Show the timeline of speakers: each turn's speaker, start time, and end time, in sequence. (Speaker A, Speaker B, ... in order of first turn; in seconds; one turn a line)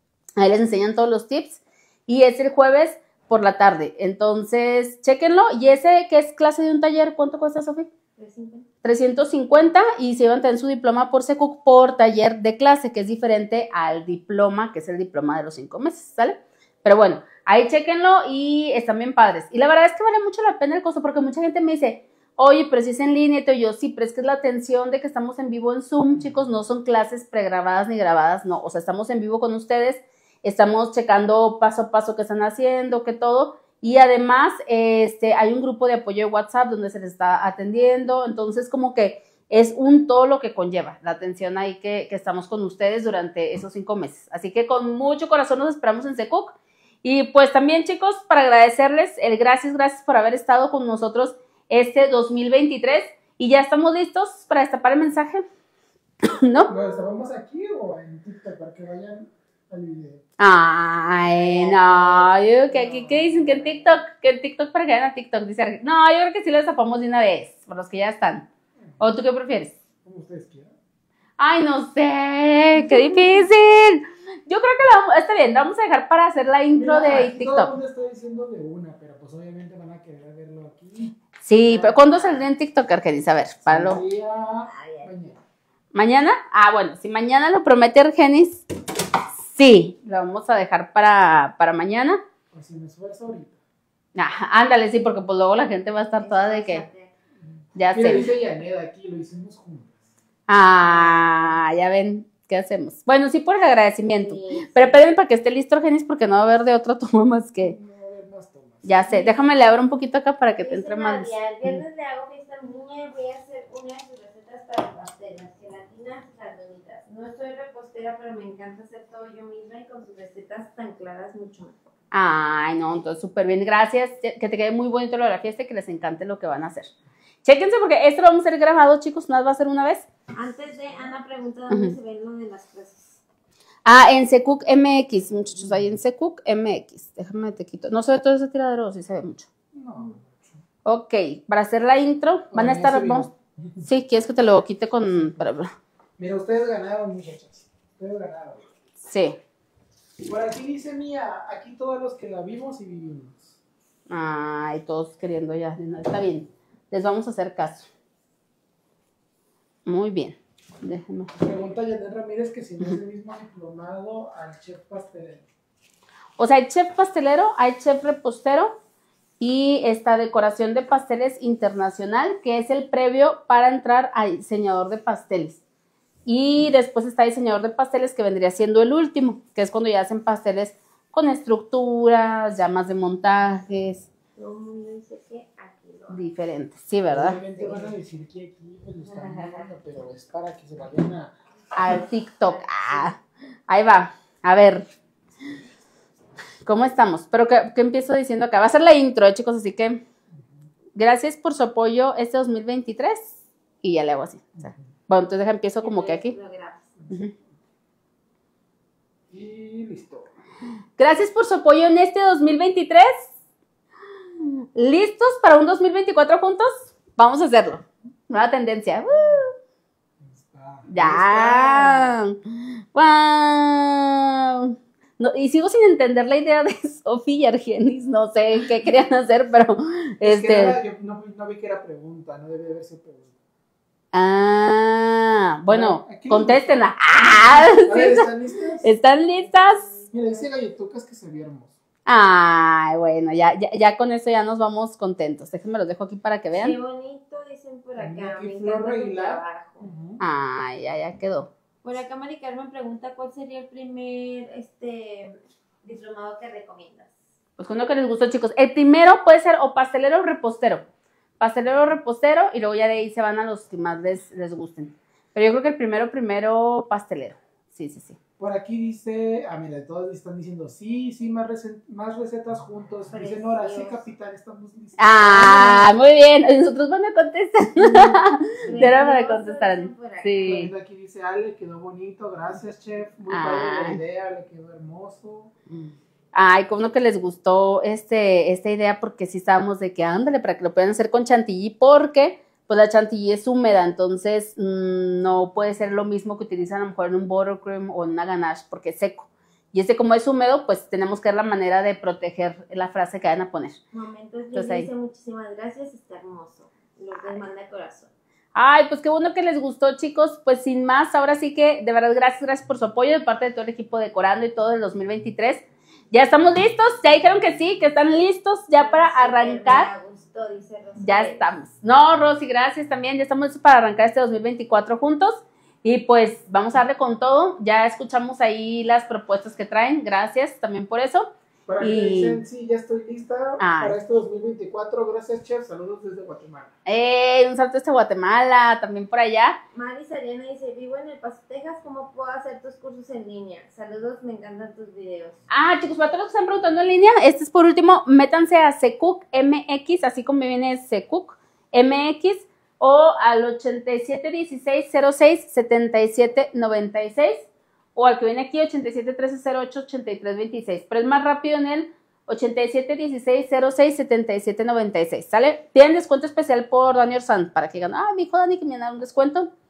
Speaker A: 0.4-7.9
Speaker B: 8.2-8.7
Speaker A: 8.8-55.4
Speaker A: 56.2-56.7
Speaker C: 56.7-60.2
Speaker A: 60.4-68.5
Speaker C: 61.7-64.0
Speaker A: 69.0-69.7
Speaker C: 70.0-70.7
Speaker A: 71.4-77.7
Speaker C: 76.7-81.2
Speaker A: 81.4-84.0
Speaker B: 81.7-82.4
Speaker C: 83.7-85.4
Speaker B: 84.7-85.1
Speaker A: 85.9-88.7
Speaker A: 89.4-92.2
Speaker C: 92.5-93.6
Speaker A: 94.2-96.8
Speaker B: 96.2-97.1
Speaker C: 97.4-100.0
Speaker A: 97.7-98.3
Speaker A: 100.5-107.8
Speaker C: 100.8-101.6
Speaker B: 104.2-104.9
Speaker C: 107.6-109.0
Speaker A: 108.8-111.8
Speaker B: 109.1-109.5
Speaker B: 110.6-121.8
Speaker A: 122.1-126.9
Speaker A: 127.4-130.1
Speaker B: 130.3-133.2
Speaker A: 131.7-131.9
Speaker A: 133.8-139.5
Speaker C: 135.6-135.9
Speaker C: 139.7-140.6
Speaker A: 140.8-143.3
Speaker C: 142.5-143.8
Speaker A: 143.8-145.7
Speaker C: 146.2-148.7
Speaker A: 149.0-149.4
Speaker C: 150.2-153.6
Speaker A: 154.1-157.9
Speaker A: 159.8-161.3
Speaker C: 161.3-165.4
Speaker A: 166.4-168.8
Speaker A: 169.4-175.6
Speaker A: 176.2-184.1
Speaker B: 184.3-186.2
Speaker A: 186.1-187.4
Speaker C: 187.1-191.3
Speaker B: 187.6-187.9
Speaker B: 189.0-189.7
Speaker A: 191.7-194.9
Speaker A: 196.6-200.0
Speaker A: 200.9-206.3
Speaker C: 204.6-204.8
Speaker B: 205.8-206.9
Speaker C: 209.3-210.3
Speaker A: 211.0-213.3
Speaker A: 214.4-219.5
Speaker C: 220.2-222.2
Speaker A: 220.9-230.8
Speaker C: 230.2-233.3
Speaker A: 234.1-238.3
Speaker C: 235.7-238.9
Speaker A: 238.8-240.0
Speaker B: 239.5-240.5
Speaker C: 240.1-241.8
Speaker A: 242.1-246.8
Speaker B: 246.5-249.9
Speaker C: 248.0-250.2
Speaker A: 250.2-251.5
Speaker B: 251.8-257.1
Speaker A: 257.6-260.9
Speaker A: 261.4-268.2
Speaker C: 268.4-275.9
Speaker B: 273.1-274.0
Speaker A: 275.0-280.7
Speaker C: 278.6-278.9
Speaker B: 278.7-280.6
Speaker C: 280.4-285.5
Speaker A: 283.3-284.0
Speaker A: 285.7-303.8
Speaker B: 303.9-308.1
Speaker A: 304.5-304.9
Speaker A: 307.1-307.4
Speaker A: 308.5-319.9
Speaker B: 318.7-321.5
Speaker A: 321.0-332.4
Speaker C: 331.7-336.7
Speaker A: 333.6-333.9
Speaker A: 336.9-339.6
Speaker B: 339.7-345.4
Speaker A: 345.5-369.5